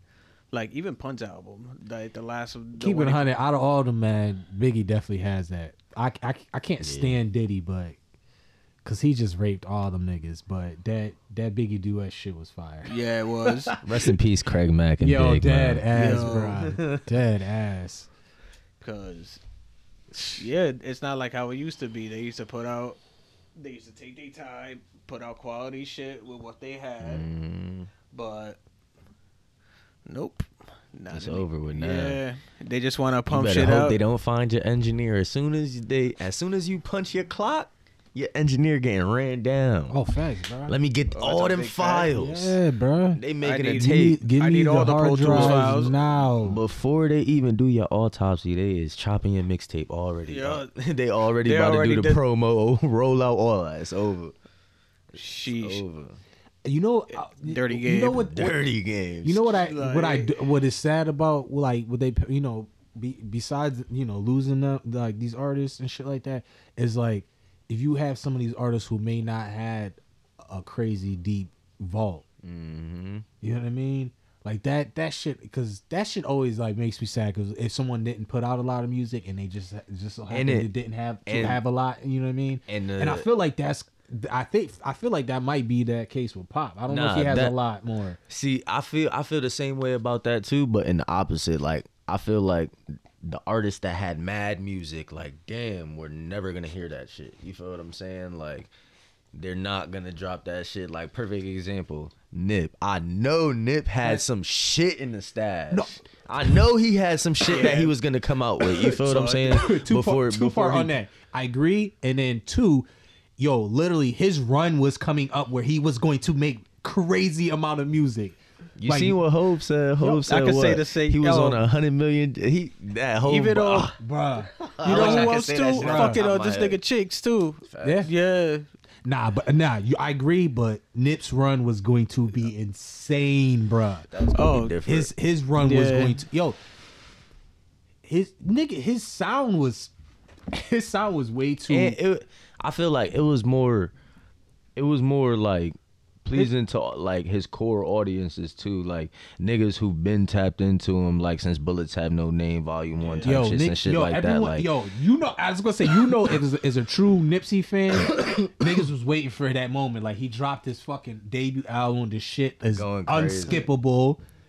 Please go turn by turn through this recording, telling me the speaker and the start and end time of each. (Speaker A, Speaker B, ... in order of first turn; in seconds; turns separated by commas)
Speaker A: 0.5-3.3, Speaker B: 2.8-8.0, Speaker C: 6.8-7.2, Speaker B: 8.8-14.2, Speaker A: 12.8-13.7, Speaker C: 13.8-17.0, Speaker B: 15.0-18.1, Speaker A: 15.9-16.6, Speaker A: 18.8-19.4, Speaker B: 20.1-20.4, Speaker A: 20.4-23.0, Speaker A: 23.6-27.3, Speaker C: 27.0-27.9, Speaker A: 28.1-28.6, Speaker A: 30.1-34.0, Speaker C: 31.1-32.2, Speaker C: 33.3-40.0, Speaker B: 39.9-40.8, Speaker C: 40.7-42.6, Speaker A: 41.1-42.1, Speaker B: 42.1-43.2, Speaker C: 43.1-44.2, Speaker A: 43.4-45.9, Speaker B: 43.8-46.6, Speaker C: 45.3-54.3, Speaker A: 50.2-50.7, Speaker A: 51.4-52.2, Speaker C: 55.1-56.2, Speaker A: 55.1-55.8, Speaker B: 56.6-58.6, Speaker A: 57.1-58.3, Speaker C: 58.2-59.5, Speaker B: 59.2-72.2, Speaker A: 59.5-60.4, Speaker C: 72.4-73.2, Speaker B: 73.4-88.2, Speaker C: 80.3-80.7, Speaker C: 81.2-81.6, Speaker C: 82.7-83.2, Speaker C: 86.9-87.5, Speaker C: 88.3-98.7, Speaker C: 99.3-110.9, Speaker A: 107.5-107.9, Speaker B: 108.7-112.9, Speaker A: 108.9-109.6, Speaker B: 113.4-119.2, Speaker C: 118.8-124.0, Speaker B: 120.0-120.3, Speaker A: 120.2-121.6, Speaker A: 123.3-123.9, Speaker B: 124.0-126.2, Speaker C: 124.5-126.8, Speaker A: 124.8-128.7, Speaker C: 127.6-128.1, Speaker B: 127.8-128.1, Speaker B: 129.0-134.1, Speaker C: 134.1-135.1, Speaker A: 134.3-134.8, Speaker B: 134.8-136.6, Speaker A: 135.6-136.2, Speaker B: 138.0-139.9, Speaker B: 140.5-142.0, Speaker C: 141.7-143.9, Speaker C: 144.8-154.7, Speaker A: 153.0-153.4, Speaker B: 153.2-164.2, Speaker C: 157.9-158.8, Speaker C: 162.7-163.7